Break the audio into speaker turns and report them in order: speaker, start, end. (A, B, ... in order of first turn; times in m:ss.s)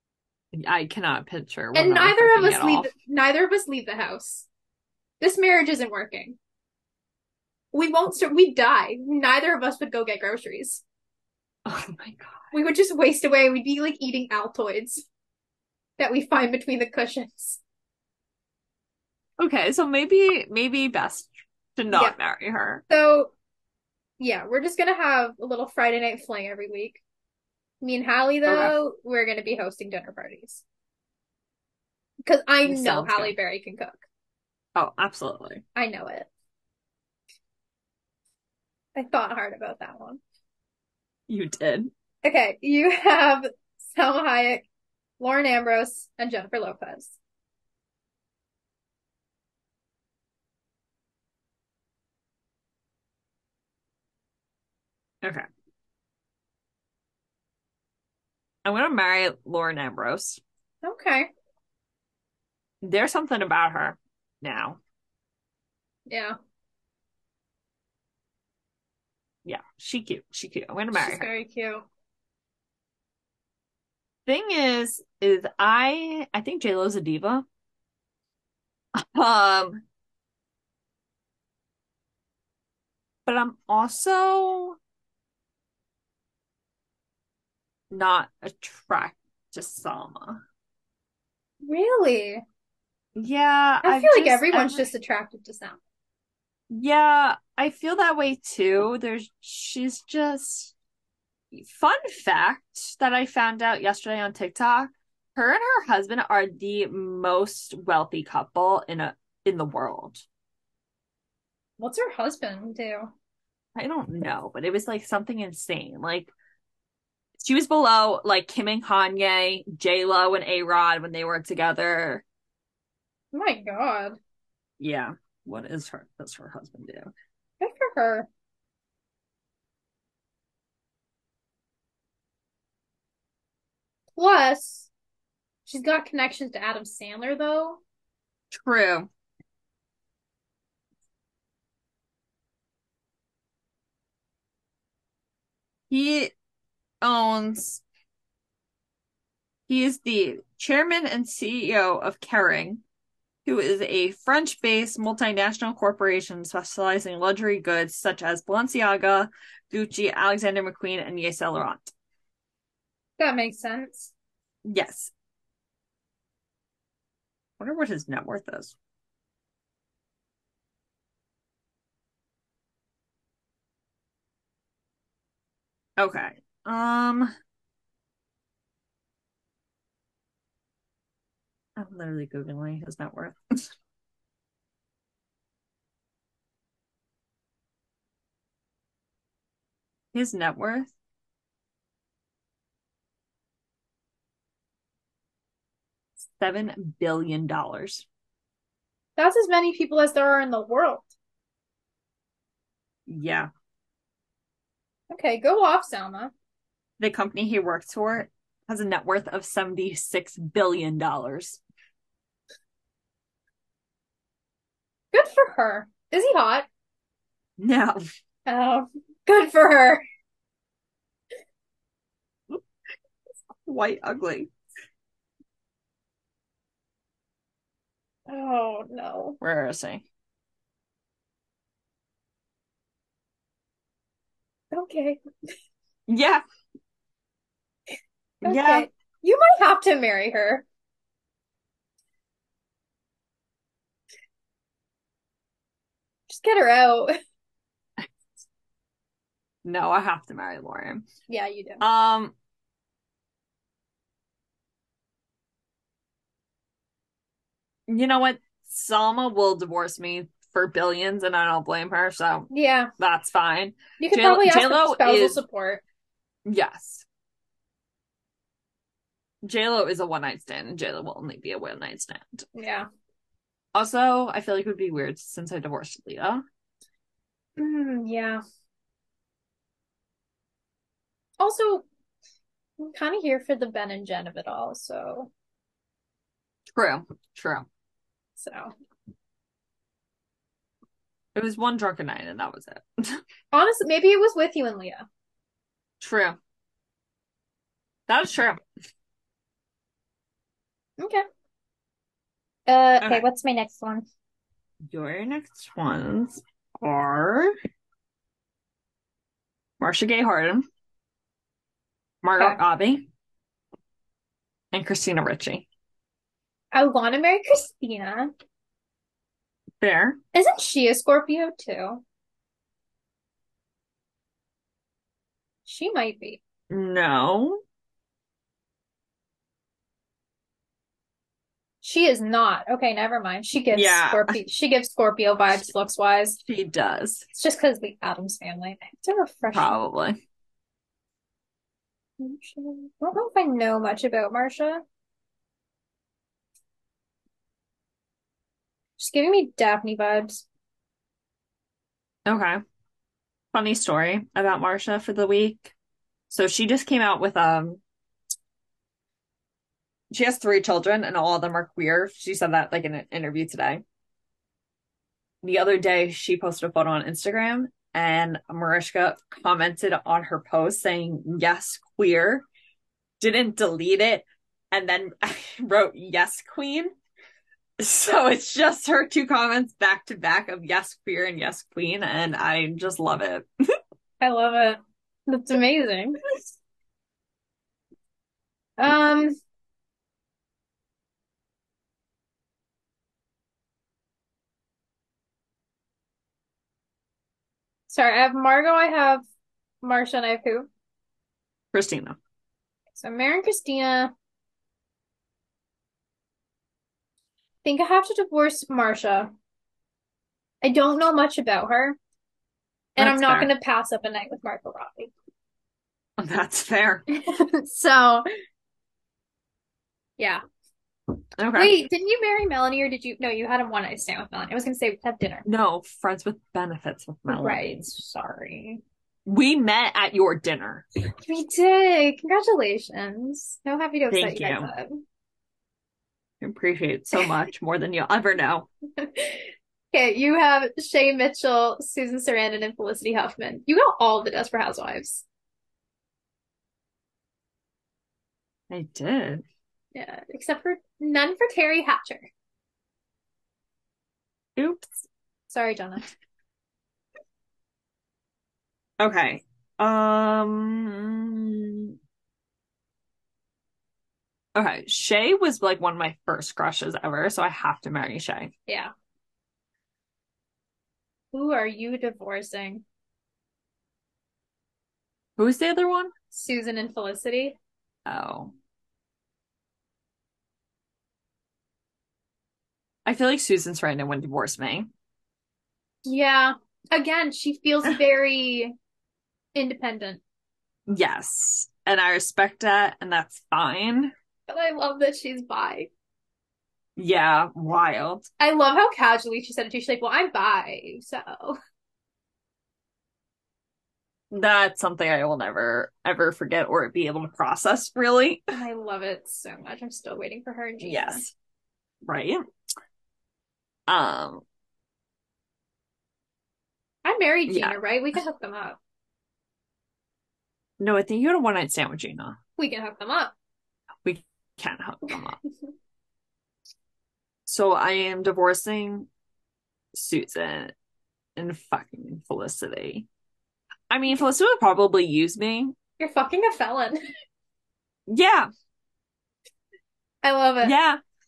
0:00.5-0:02.9 A
0:01.7-0:04.5 B
0:05.2-0:06.4 B
0:07.7-0:10.8 B
0:11.6-0:12.4 A
0:12.5-0:15.0 B
0:16.0-0:17.6 B
0:19.4-0:22.8 A
0:22.9-0:23.3 B
0:24.2-0:27.0 B
0:27.8-0:30.6 B
0:28.4-0:28.8 A
0:32.2-0:34.0 B
0:32.6-0:33.3 A
0:34.8-0:35.6 A
0:35.7-0:36.3 B
0:38.9-0:40.2 B
0:41.3-0:41.9 A
0:42.2-0:44.6 B
0:45.2-0:47.2 B
0:58.6-1:00.4 A
1:00.8-1:01.3 B
1:02.8-1:04.8 A
1:06.1-1:06.4 B
1:09.4-1:11.3 A
1:10.9-1:11.9 B
1:14.2-1:17.4 A
1:19.0-1:19.8 A
1:23.2-1:24.8 A
1:27.9-1:30.4 A
1:31.6-1:32.4 B
1:33.2-1:34.9 A
1:33.8-1:35.8 B
1:36.7-1:40.7 A
1:41.5-1:50.2 A
1:51.8-1:53.1 B
1:53.8-1:56.3 A
1:57.4-2:02.2 A
2:03.3-2:04.2 B
2:04.8-2:07.1 A
2:07.6-2:08.3 B
2:14.2-2:14.9 B
2:15.6-2:17.8 B
2:18.5-2:19.1 A
2:25.9-2:26.3 A
2:27.0-2:27.8 A
2:29.7-2:32.8 A
2:33.4-2:41.9 A
2:43.2-2:44.1 B
2:44.6-2:45.1 A
2:47.6-2:48.7 A
2:56.0-2:57.3 A
3:01.8-3:03.7 A
3:10.1-3:10.9 A
3:16.2-3:18.0 A
3:19.2-3:21.1 B
3:23.1-3:23.5 A
3:25.1-3:26.3 B
3:27.0-3:31.6 A
3:35.1-3:36.7 B
3:37.6-3:38.0 A
3:38.4-3:40.0 B
3:43.6-3:44.5 A
3:48.3-3:49.4 B
3:49.4-3:50.0 A
3:54.7-3:55.2 B
3:56.1-3:56.4 A
3:58.4-4:00.6 B
3:58.4-3:58.9 A
4:06.3-4:07.1 B
4:09.6-4:11.0 A
4:11.3-4:11.8 B
4:11.8-4:12.3 A
4:17.9-4:25.4 A
4:22.5-4:22.9 B
4:24.0-4:25.8 B
4:26.4-4:27.0 A
4:29.4-4:32.5 A
4:32.5-4:32.9 B
4:33.7-4:36.4 A
4:37.6-4:38.4 B
4:41.4-4:41.8 B
4:42.8-4:45.3 B
4:46.7-4:47.7 A
4:48.4-4:48.7 B
4:51.3-4:53.2 A
4:53.5-4:55.0 B
4:56.0-4:56.4 A
4:58.1-4:58.6 A
5:01.0-5:01.2 B
5:02.7-5:04.0 B
5:04.9-5:07.5 A
5:09.8-5:10.6 A
5:12.2-5:13.0 A
5:14.7-5:15.6 A
5:16.7-5:18.3 B
5:19.8-5:20.2 A
5:20.3-5:22.0 B
5:25.6-5:26.4 B
5:26.7-5:27.6 A
5:31.8-5:36.4 B
5:33.7-5:34.4 A
5:36.4-5:37.3 A
5:37.3-5:39.8 B
5:39.5-5:40.2 A
5:42.2-5:44.8 B
5:49.0-5:50.4 B
5:52.2-5:52.6 A
5:53.5-5:55.7 A
5:56.3-5:57.8 A
6:00.1-6:03.8 A
6:05.4-6:12.4 A
6:13.2-6:16.9 A
6:17.8-6:23.5 A
6:24.2-6:26.2 B
6:28.8-6:29.4 B
6:37.9-6:39.2 B
6:39.8-6:40.7 B
6:41.7-6:42.2 A
6:43.0-6:44.1 B
6:47.6-6:49.3 B
6:50.6-6:52.0 B
6:53.0-6:55.1 B
6:53.0-6:53.5 A
6:56.2-6:57.0 A
6:57.1-6:58.2 B
7:01.4-7:01.8 A
7:01.5-7:05.4 B
7:05.4-7:07.9 A
7:07.3-7:08.8 B
7:09.2-7:10.8 A
7:11.1-7:15.0 B
7:14.1-7:14.7 A
7:16.4-7:18.7 A
7:19.0-7:25.2 B
7:28.7-7:29.4 A
7:29.9-7:32.3 B
7:34.6-7:35.0 A
7:35.5-7:36.1 B
7:39.0-7:41.9 A
7:44.6-7:48.5 A
7:51.3-7:52.8 B
7:55.4-7:56.1 A
7:56.3-7:57.6 B
7:58.0-7:58.5 A
8:03.0-8:04.9 A
8:06.0-8:08.7 B
8:09.5-8:10.2 B
8:10.9-8:14.1 A
8:14.5-8:15.9 B
8:17.0-8:18.2 A
8:18.4-8:21.6 B
8:24.3-8:28.5 A
8:28.5-8:31.2 B
8:30.8-8:31.3 A
8:32.0-8:32.4 A
8:33.9-8:34.4 A
8:37.0-8:38.8 B
8:37.5-8:37.8 A
8:40.8-8:42.4 A
8:42.6-8:43.3 B
8:44.0-8:45.4 A
8:47.4-8:49.1 A
8:49.9-8:50.7 A
8:51.4-8:53.1 A
8:53.9-8:55.7 A
8:56.0-8:57.0 B
8:58.1-8:58.5 A
9:00.2-9:00.7 B
9:00.6-9:01.0 A